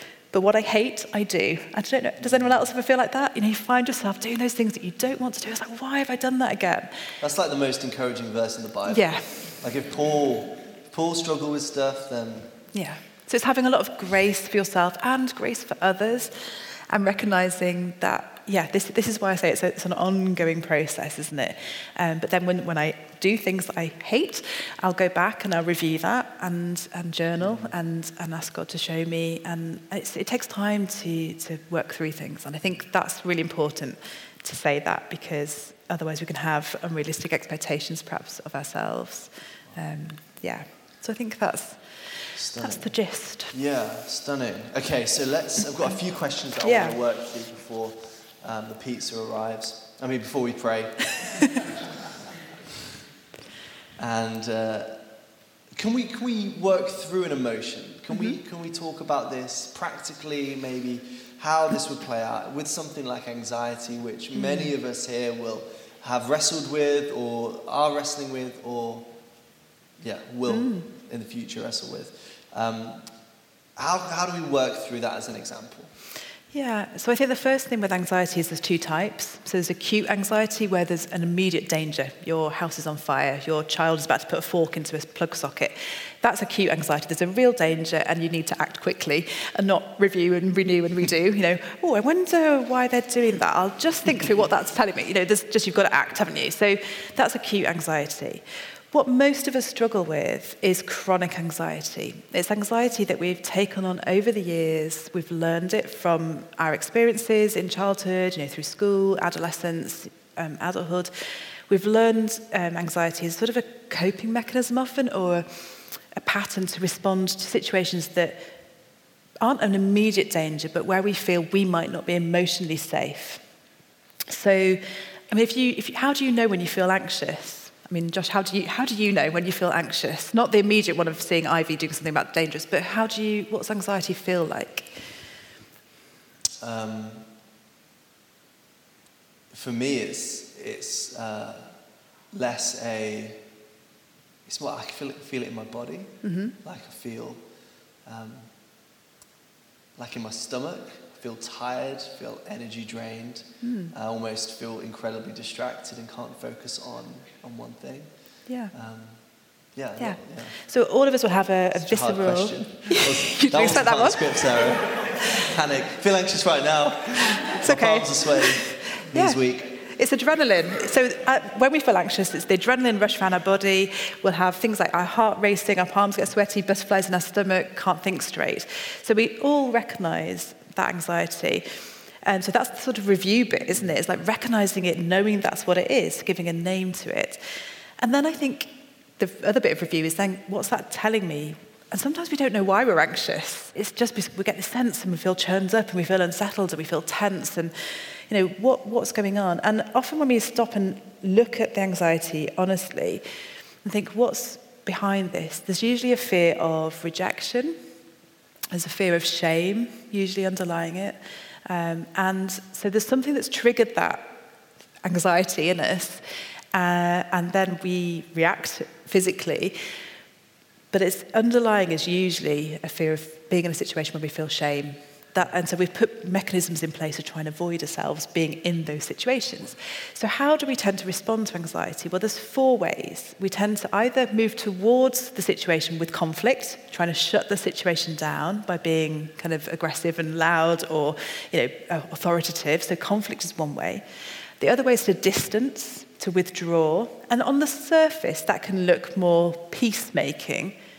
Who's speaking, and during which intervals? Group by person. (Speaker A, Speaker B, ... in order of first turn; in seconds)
Speaker A: 0.3-6.9, 8.9-9.5, 12.7-43.5, 46.6-46.9, 58.1-58.4, 64.3-64.7, 70.5-70.9, 76.5-111.1, 111.7-118.5, 119.4-123.4, 124.3-134.9, 146.2-146.6, 153.6-153.9, 158.5-158.7, 160.0-164.3, 167.4-181.7, 182.2-187.4, 188.0-197.7, 198.3-203.2, 203.8-207.8, 208.7-214.4, 215.0-219.8, 220.9-244.0, 244.6-250.8
Speaker B: 7.2-12.5, 27.4-27.7, 42.4-42.9, 43.5-51.6, 54.0-55.0, 55.8-69.2, 70.0-73.1, 73.8-75.9, 136.6-137.3, 139.5-141.8, 142.3-143.4, 144.4-147.4, 148.0-148.5, 150.0-158.1, 158.7-159.2, 159.8-160.6, 161.8-169.8